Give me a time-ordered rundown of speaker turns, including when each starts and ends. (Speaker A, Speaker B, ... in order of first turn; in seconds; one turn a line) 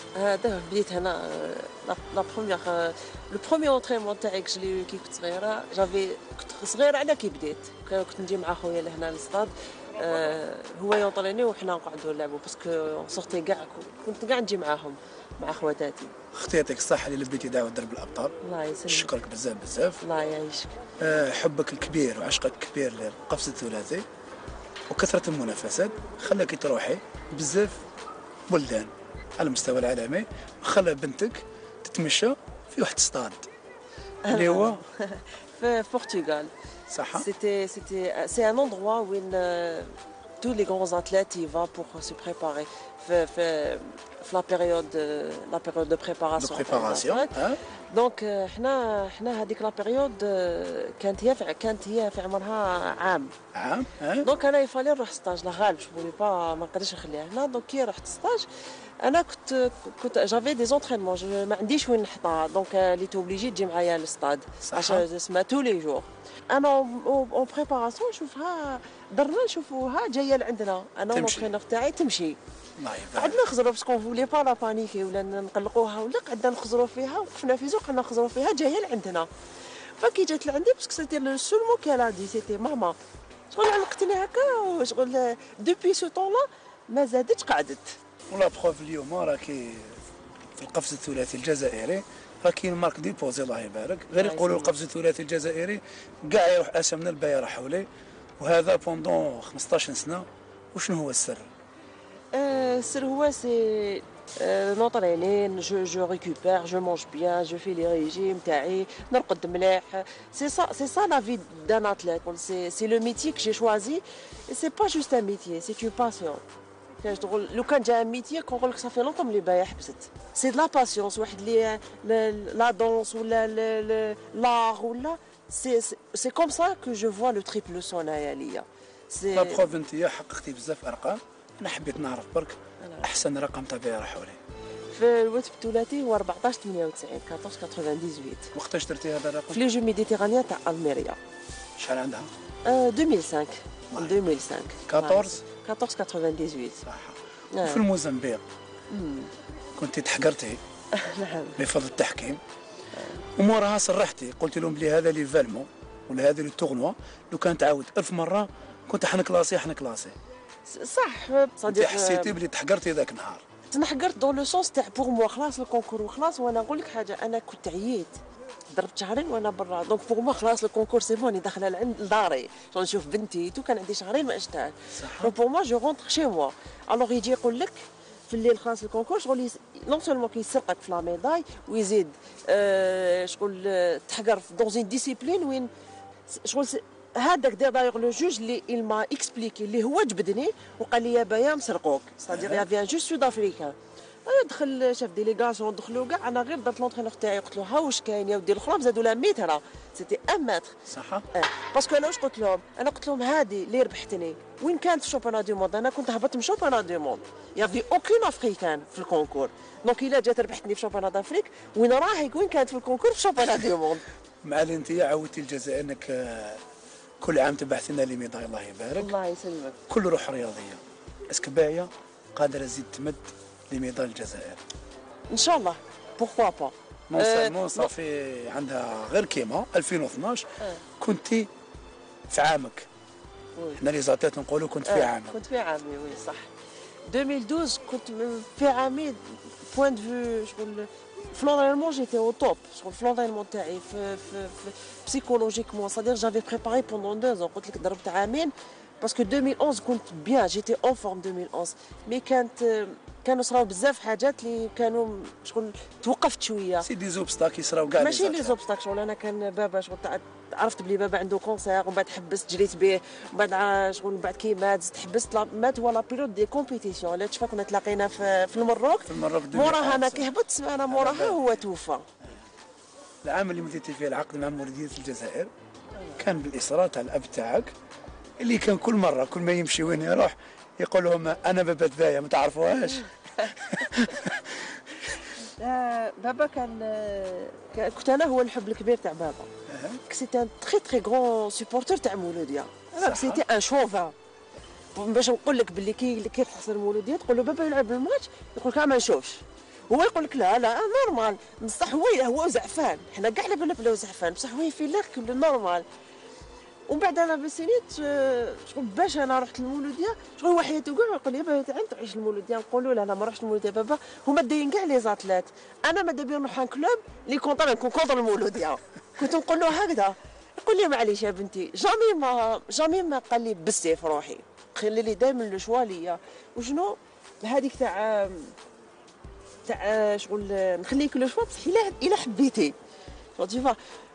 Speaker A: 0.1-16.1
Speaker B: 16.3-18.3
Speaker A: 18.4-19.1
Speaker B: 18.9-20.0
Speaker A: 20.0-20.7
Speaker B: 21.0-24.0
Speaker B: 24.9-27.8
Speaker B: 28.5-33.5
Speaker A: 34.3-36.5
Speaker B: 34.3-34.8
Speaker B: 36.9-37.3
Speaker A: 37.2-39.9
Speaker A: 40.4-47.3
Speaker B: 46.4-47.6
Speaker A: 47.9-53.3
Speaker B: 53.5-54.3
Speaker A: 54.2-58.5
Speaker A: 59.0-72.4
Speaker B: 64.6-65.0
Speaker B: 71.1-71.5
Speaker B: 72.8-73.4
Speaker A: 73.2-79.3
Speaker A: 80.0-83.0
Speaker A: 83.5-87.9
Speaker B: 88.3-90.0
Speaker B: 90.5-97.9
Speaker A: 94.1-94.7
Speaker B: 98.4-101.5
Speaker A: 102.3-116.4
Speaker A: 117.0-129.6
Speaker B: 129.3-134.4
Speaker A: 134.9-138.5
Speaker B: 138.5-139.6
Speaker A: 139.5-141.2
Speaker B: 141.8-142.3
Speaker A: 142.6-146.8
Speaker B: 143.9-144.2
Speaker B: 144.8-145.4
Speaker B: 146.8-148.4
Speaker A: 147.5-147.8
Speaker A: 148.9-149.3
Speaker B: 149.8-150.6
Speaker A: 150.9-151.6
Speaker B: 151.6-152.4
Speaker B: 153.3-160.1
Speaker A: 160.7-162.3
Speaker B: 161.7-163.4
Speaker A: 163.7-168.2
Speaker A: 168.7-185.7
Speaker B: 174.9-175.3
Speaker A: 186.3-193.7
Speaker B: 192.3-192.6
Speaker A: 194.2-200.7
Speaker B: 200.9-201.2
Speaker A: 201.3-214.0
Speaker B: 214.4-216.6
Speaker B: 217.2-219.1
Speaker A: 219.0-219.8
Speaker B: 219.9-224.6
Speaker A: 225.3-227.9
Speaker B: 227.1-230.4
Speaker B: 231.0-231.5
Speaker B: 232.3-232.9
Speaker B: 233.8-235.3
Speaker A: 234.9-236.5
Speaker A: 237.1-256.8
Speaker B: 256.8-258.6
Speaker A: 257.9-272.0
Speaker B: 269.0-270.3
Speaker B: 270.9-271.6
Speaker B: 273.2-275.5
Speaker B: 276.2-277.7
Speaker B: 278.4-284.6
Speaker A: 285.4-289.5
Speaker B: 289.7-290.0
Speaker A: 290.1-294.1
Speaker B: 293.0-293.4
Speaker A: 294.9-305.8
Speaker A: 306.9-328.5
Speaker A: 329.6-332.7
Speaker A: 333.4-333.8